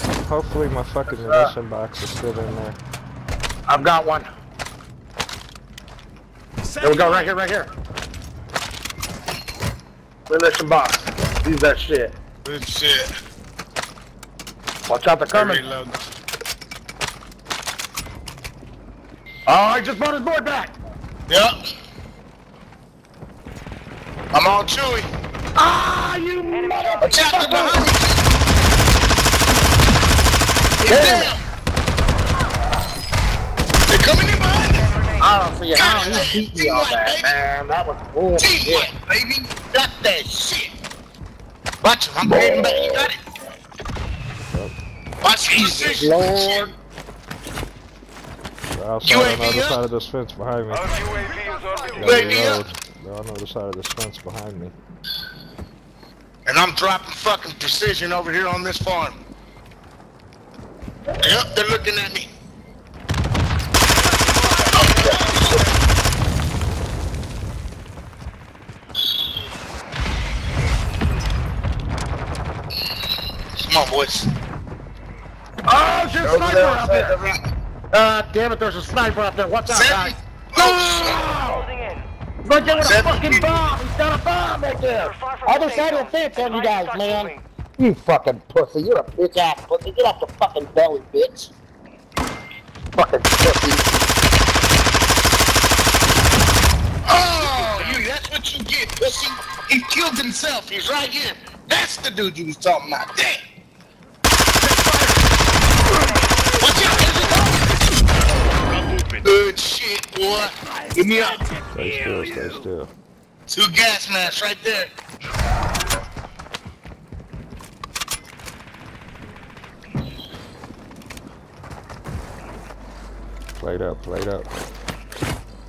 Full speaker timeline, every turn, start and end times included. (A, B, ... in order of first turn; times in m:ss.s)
0:00.2-0:02.8 A
0:01.2-0:01.5 B
0:03.7-0:04.3 B
0:06.8-0:07.7 B
0:10.3-0:12.2 B
0:12.4-0:13.1 C
0:14.9-0:15.6 B
0:15.3-0:16.0 C
0:19.4-0:20.7 B
0:21.3-0:21.6 C
0:24.3-0:25.1 C
0:25.6-0:27.9 B
0:26.5-0:27.1 D
0:27.0-0:28.2 C
0:30.8-0:31.4 C
0:30.8-0:31.3 B
0:33.9-0:34.9 C
0:35.2-0:38.9 B
0:35.8-0:37.3 C
0:38.4-0:40.7 C
0:41.8-0:43.2 C
0:42.2-0:43.1 B
0:45.2-0:46.7 C
0:45.5-0:46.8 B
0:48.7-0:50.9 A
0:49.0-0:49.8 C
0:51.9-0:54.8 A
0:52.0-0:52.6 C
0:56.4-0:59.2 C
1:01.2-1:02.3 C
1:04.7-1:05.6 C
1:13.7-1:14.3 C
1:15.7-1:17.2 B
1:16.2-1:17.4 C
1:17.9-1:21.7 B
1:19.7-1:21.2 C
1:21.5-1:22.0 D
1:22.4-1:31.5 B
1:22.6-1:23.6 C
1:25.0-1:27.4 D
1:33.0-1:33.9 B
1:37.1-1:43.4 C
1:46.6-1:47.5 C
1:49.2-1:51.4 C
1:51.7-1:52.9 A
1:53.5-1:54.9 C
2:03.6-2:04.5 A